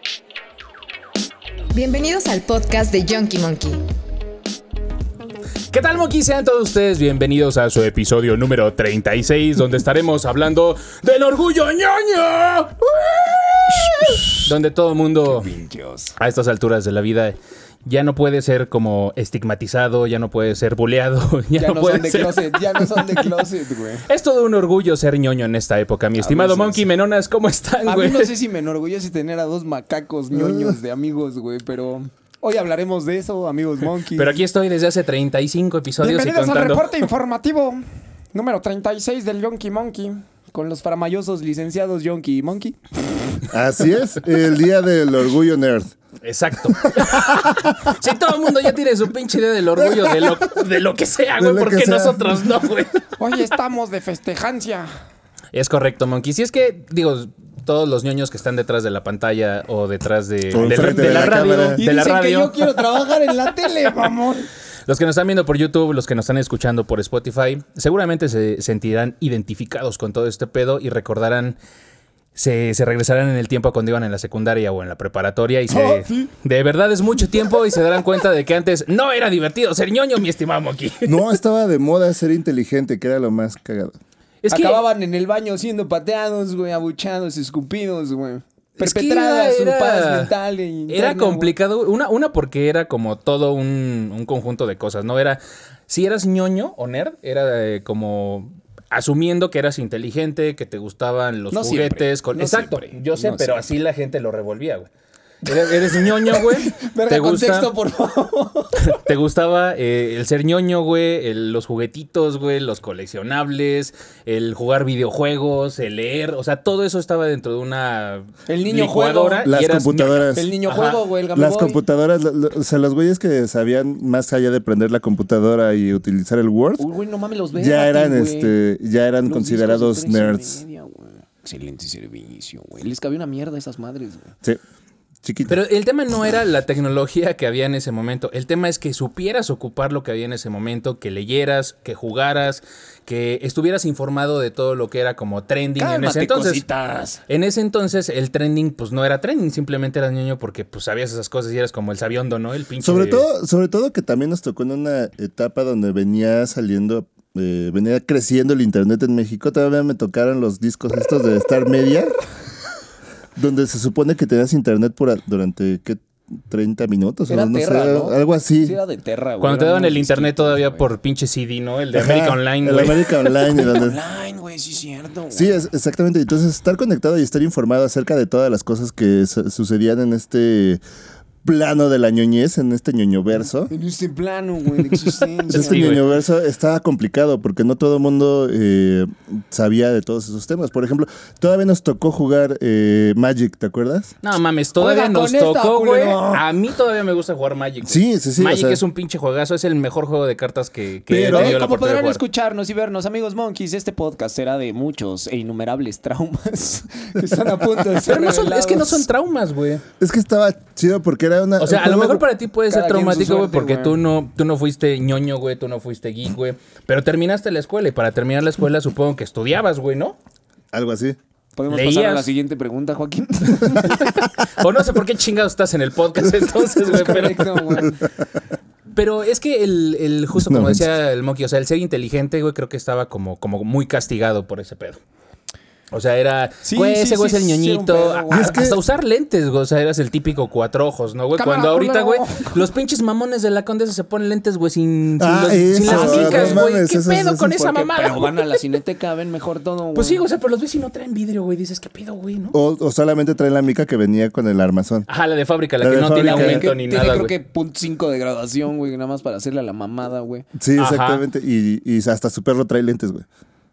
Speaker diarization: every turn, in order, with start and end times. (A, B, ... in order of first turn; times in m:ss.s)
0:01.7-0:03.8 A
0:05.7-0:12.9 B
0:13.7-0:15.5 B
0:13.7-0:14.2 C
0:15.2-0:16.2 C
0:16.2-0:23.3 B
0:21.5-0:24.0 C
0:24.1-0:28.3 B
0:26.2-0:26.9 C
0:27.8-0:34.4 C
0:30.3-0:30.7 D
0:34.1-0:36.9 B
0:36.0-0:43.5 C
0:43.5-0:45.9 D
0:46.2-0:53.0 B
0:50.0-0:50.4 D
0:51.4-0:52.2 D
0:53.2-0:54.9 C
0:55.5-1:02.8 B
1:00.5-1:01.8 D
1:00.9-1:04.5 C
1:04.9-1:11.6 B
1:12.3-1:21.2 B
1:15.7-1:16.3 C
1:21.0-1:24.0 D
1:24.4-1:24.8 B
1:24.5-1:31.5 C
1:28.8-1:30.3 B
1:30.9-1:44.9 B
1:41.5-1:43.6 C
1:45.4-1:47.7 B
1:45.5-1:49.0 C
1:48.8-2:01.0 B
1:58.5-1:59.4 C
1:59.4-2:00.5 D
2:00.3-2:01.8 C
2:01.3-2:06.8 D
2:06.8-2:08.5 C
2:07.5-2:10.6 D
2:09.2-2:14.3 C
2:15.2-2:15.6 D
2:15.5-2:26.6 B
2:25.8-2:27.2 C
2:27.3-2:33.2 B
2:32.8-2:42.1 D
2:43.4-2:48.7 D
2:47.3-2:50.9 C
2:49.4-2:53.1 B
2:51.9-2:54.0 D
2:53.4-2:55.6 C
2:55.3-3:00.8 D
3:01.4-3:03.7 D
3:03.7-3:06.1 C
3:05.5-3:06.0 B
3:05.5-3:14.1 D
3:14.2-3:22.2 B
3:14.8-3:16.4 C
3:17.8-3:18.8 D
3:21.1-3:21.6 D
3:21.2-3:29.0 C
3:28.0-3:29.8 B
3:30.0-3:32.2 D
3:31.6-3:40.2 B
3:32.7-3:34.0 C
3:40.7-3:41.2 D
3:41.6-3:44.0 C
3:41.7-3:42.3 B
3:43.6-3:47.9 B
3:46.9-3:48.0 C
3:48.9-3:55.0 B
3:50.3-3:50.8 D
3:55.9-4:08.6 B
3:56.6-3:58.6 C
3:58.3-3:58.8 D
4:01.4-4:02.6 C
4:05.2-4:07.9 D
4:05.8-4:06.6 C
4:07.9-4:10.2 C
4:09.9-4:12.5 B
4:12.5-4:15.1 D
4:15.1-4:17.3 B
4:15.8-4:16.7 D
4:16.1-4:20.4 C
4:20.6-4:23.2 D
4:20.8-4:21.2 B